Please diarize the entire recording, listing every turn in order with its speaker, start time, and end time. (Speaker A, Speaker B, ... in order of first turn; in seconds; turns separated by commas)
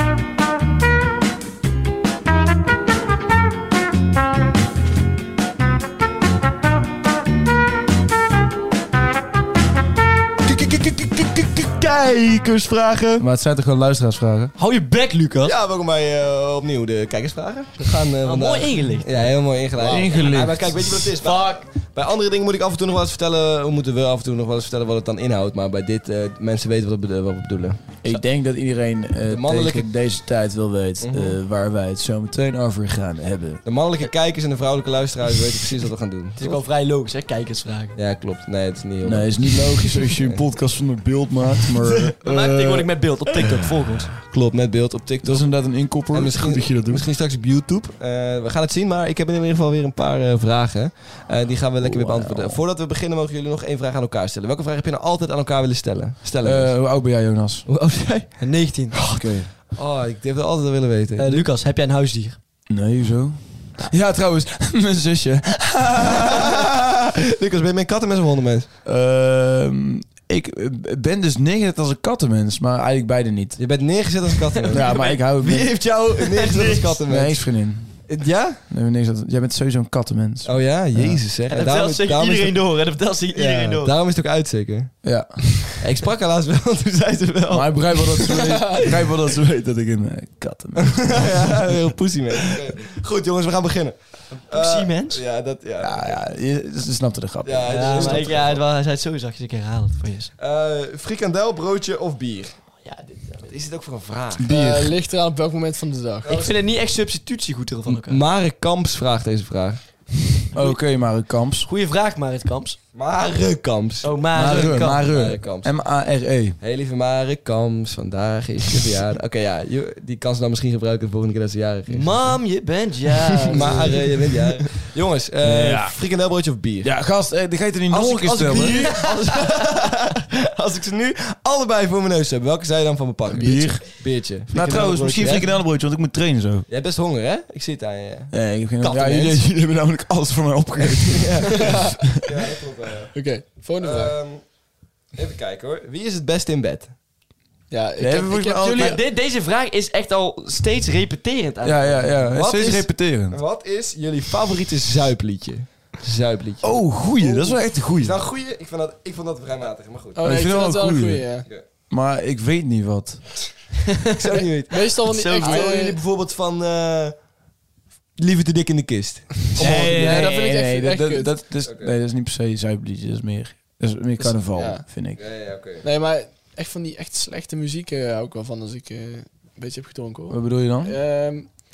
Speaker A: 10.4-13.2, Speaker B: 13.2-14.5, Speaker C: 14.6-15.5, Speaker A: 15.4-27.8, Speaker C: 18.2-19.4, Speaker B: 19.8-21.1, Speaker D: 19.8-20.1, Speaker C: 21.2-21.7, Speaker B: 28.0-33.6, Speaker A: 29.3-29.9, Speaker A: 31.0-31.4, Speaker A: 33.6-36.6, Speaker C: 36.4-38.0, Speaker A: 38.0-39.6, Speaker B: 39.0-43.7, Speaker C: 42.2-44.2, Speaker A: 44.3-56.7, Speaker B: 45.2-47.0, Speaker B: 51.8-52.6, Speaker B: 56.4-57.7, Speaker A: 57.7-58.4, Speaker C: 58.4-59.1, Speaker B: 59.0-59.5, Speaker A: 59.7-61.5, Speaker C: 61.2-62.4, Speaker B: 62.7-66.7, Speaker A: 67.3-68.7, Speaker B: 68.8-73.7, Speaker A: 73.6-77.5, Speaker C: 74.5-75.2, Speaker B: 74.7-76.2, Speaker C: 76.3-77.0, Speaker B: 77.0-81.2, Speaker A: 78.0-78.6, Speaker A: 80.4-82.6, Speaker C: 81.5-83.9, Speaker A: 83.3-85.0, Speaker B: 85.0-85.8, Speaker A: 85.8-88.4, Speaker B: 87.5-91.6, Speaker A: 90.9-96.2, Speaker C: 94.5-95.2, Speaker B: 95.8-98.4, Speaker A: 97.4-98.6, Speaker C: 97.7-100.3, Speaker A: 100.4-102.6, Speaker C: 102.8-103.5, Speaker A: 103.5-104.4, Speaker B: 104.4-105.0, Speaker D: 104.5-106.5, Speaker C: 106.2-108.2, Speaker A: 107.9-109.8, Speaker B: 110.5-111.7, Speaker C: 111.7-112.8, Speaker A: 112.9-115.7, Speaker C: 114.0-115.0, Speaker B: 114.3-116.6, Speaker A: 116.6-122.3, Speaker C: 121.9-124.5, Speaker A: 123.5-126.9, Speaker B: 125.4-126.0, Speaker B: 126.8-128.9, Speaker A: 127.9-135.6, Speaker C: 128.5-129.1, Speaker B: 133.3-136.7, Speaker D: 133.4-133.7, Speaker A: 136.7-139.4, Speaker B: 138.3-142.2, Speaker A: 140.8-143.1, Speaker D: 143.1-144.1, Speaker A: 143.8-144.4, Speaker A: 145.1-146.9, Speaker D: 147.7-149.0, Speaker B: 148.0-149.0, Speaker C: 148.8-152.2, Speaker B: 151.6-153.4, Speaker A: 152.3-160.2, Speaker B: 156.6-158.2, Speaker D: 160.2-161.5, Speaker B: 160.2-163.4, Speaker A: 164.1-167.2, Speaker D: 164.7-166.0, Speaker C: 165.0-165.7, Speaker A: 168.2-170.3, Speaker B: 169.6-175.2, Speaker C: 169.7-170.2, Speaker D: 169.7-171.4, Speaker A: 171.6-171.9, Speaker D: 174.2-174.9, Speaker A: 175.1-175.8, Speaker D: 175.8-181.5, Speaker B: 180.3-180.9